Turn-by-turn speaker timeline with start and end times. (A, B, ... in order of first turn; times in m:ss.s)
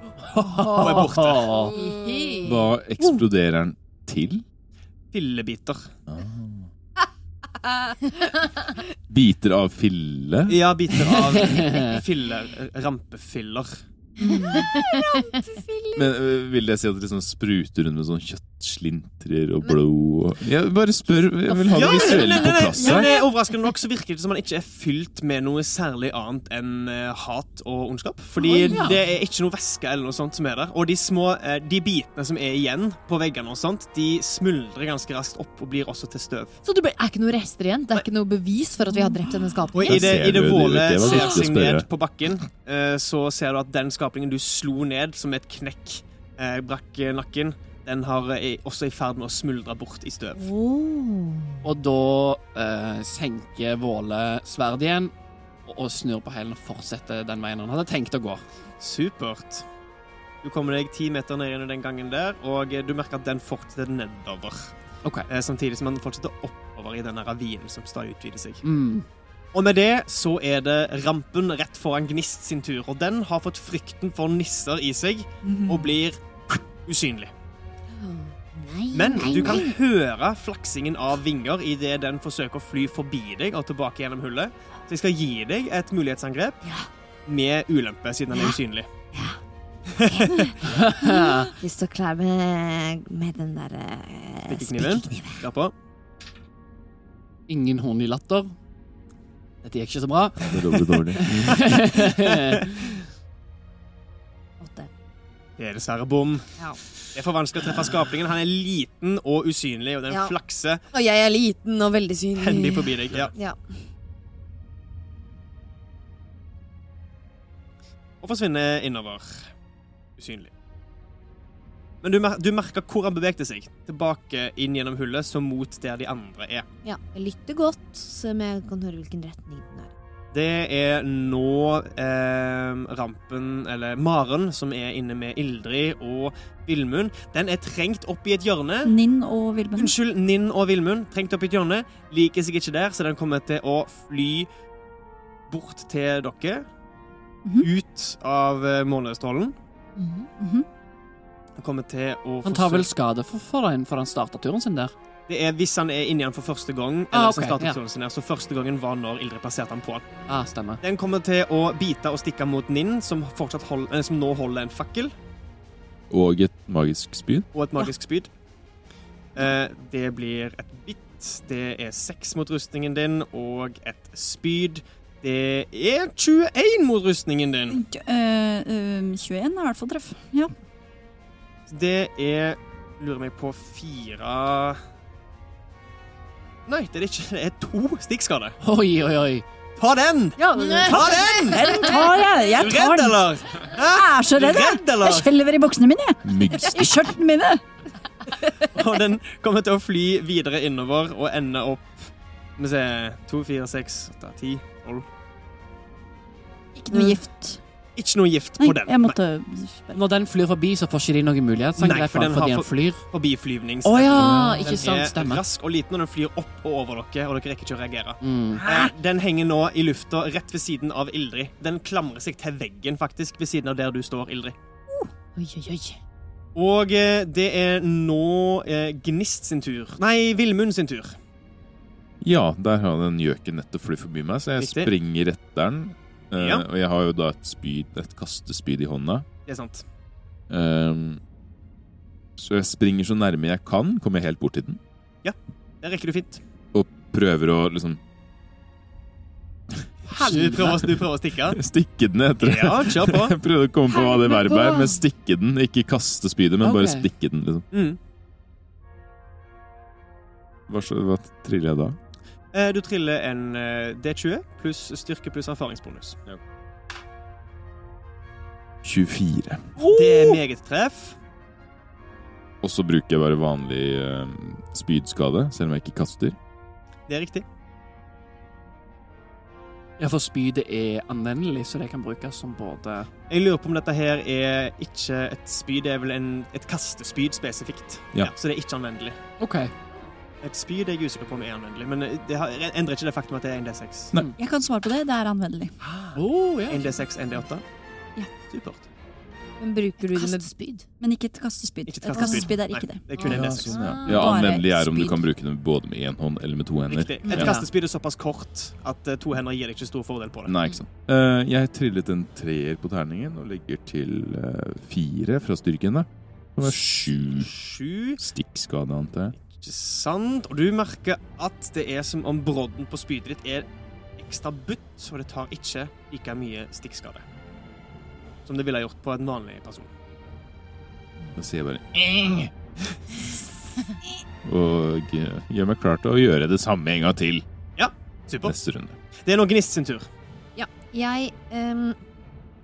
0:00.3-0:01.8 A
0:00.6-0:01.0 B
0:00.6-0:01.5 C
0:01.7-0:02.7 B
0:01.7-0:02.4 D
0:02.4-0:04.4 E
0:05.1-0:05.9 C
0:06.1-0:06.7 E
0:07.7-0:08.0 D
0:09.1-0:10.6 E
0:10.5-0:13.8 C
0:11.1-0:12.0 A
0:14.2-0:15.2 B
0:14.2-0:16.1 D
0:15.9-0:23.1 E
0:21.5-0:23.3 D
0:21.7-0:36.6 C
0:28.4-0:29.0 D
0:28.7-0:29.0 B
0:36.6-0:40.2 B
0:39.7-0:50.4 C
0:39.8-0:41.8 E
0:50.3-0:51.7 D
0:51.6-0:55.1 A
0:55.6-0:58.4 A
0:58.8-0:59.6 C
1:00.4-1:04.7 C
1:05.3-1:08.6 C
1:08.6-1:09.0 A
1:09.5-1:17.3 C
1:15.4-1:15.9 D
1:17.9-1:19.7 D
1:18.9-1:26.6 C
1:27.3-1:28.9 C
1:29.1-1:29.4 D
1:29.9-1:30.5 C
1:30.0-1:35.4 D
1:30.6-1:31.5 A
1:34.5-1:35.7 C
1:37.5-1:38.5 A
1:39.6-1:42.7 A
1:40.4-1:41.9 E
1:42.3-1:42.7 C
1:44.6-1:44.9 D
1:45.6-1:46.5 C
1:47.1-1:50.8 C
1:50.1-1:50.3 D
1:50.9-1:53.8 D
1:52.4-1:53.3 C
1:58.2-1:59.5 C
2:00.2-2:00.5 C
2:02.0-2:06.6 C
2:06.8-2:09.9 D
2:10.3-2:18.9 C
2:18.8-2:19.9 F
2:19.8-2:24.5 C
2:25.5-2:26.7 C
2:27.6-2:29.5 C
2:30.0-2:30.3 B
2:30.4-2:30.6 F
2:31.6-2:32.9 C
2:32.4-2:34.9 A
2:35.3-2:40.1 C
2:37.1-2:37.8 A
2:40.3-2:40.8 A
2:40.8-2:45.1 C
2:46.1-2:47.5 E
2:47.5-2:48.3 C
2:49.3-2:57.8 C
2:57.7-3:00.5 F
3:01.7-3:04.8 C
3:06.7-3:08.6 C
3:08.6-3:09.4 A
3:09.8-3:12.0 C
3:10.4-3:11.4 D
3:10.5-3:12.0 B
3:11.5-3:17.6 F
3:12.5-3:15.3 C
3:16.2-3:16.7 E
3:18.7-3:21.9 C
3:22.6-3:25.0 C
3:26.8-3:27.6 F
3:28.0-3:29.2 C
3:28.6-3:30.0 F
3:29.9-3:33.0 A
3:31.8-3:44.5 C
3:33.8-3:35.4 A
3:38.2-3:38.7 A
3:45.3-3:46.0 B
3:46.5-3:51.2 C
3:52.2-3:59.3 E
3:54.6-3:54.9 C
3:56.4-3:56.6 C
3:59.4-3:59.8 C
4:00.5-4:01.2 E
4:02.4-4:04.8 E
4:05.2-4:06.4 C
4:06.7-4:08.0 E
4:10.1-4:10.8 A
4:10.2-4:11.6 C
4:11.5-4:17.6 E
4:12.4-4:13.4 C
4:16.6-4:17.0 A
4:17.7-4:18.0 C
4:20.7-4:22.0 E
4:22.5-4:26.2 C
4:28.8-4:29.7 E
4:29.8-4:30.4 A
4:29.8-4:31.2 C
4:32.6-4:36.4 E
4:37.1-4:37.4 C
4:40.0-4:43.1 A
4:43.3-4:49.2 C
4:49.4-4:49.7 A
4:50.4-4:54.1 C
4:54.4-4:55.7 F
4:56.1-4:57.0 A
4:56.7-4:57.6 C
4:58.5-4:58.8 C
4:59.6-5:00.5 D
5:00.0-5:00.8 B
5:01.0-5:03.1 F
5:01.9-5:03.7 C
5:02.2-5:02.4 D
5:03.2-5:03.5 D
5:03.2-5:07.6 E
5:03.7-5:04.3 B
5:04.0-5:05.2 F
5:06.9-5:10.5 C
5:10.5-5:17.6 E
5:16.6-5:18.2 C
5:18.2-5:19.3 E
5:19.4-5:23.7 C
5:24.2-5:27.2 C
5:28.4-5:29.9 C
5:31.3-5:32.5 E
5:34.4-5:37.4 E
5:37.8-5:38.5 C
5:38.4-5:39.0 E
5:39.2-5:40.1 C
5:40.6-5:42.0 D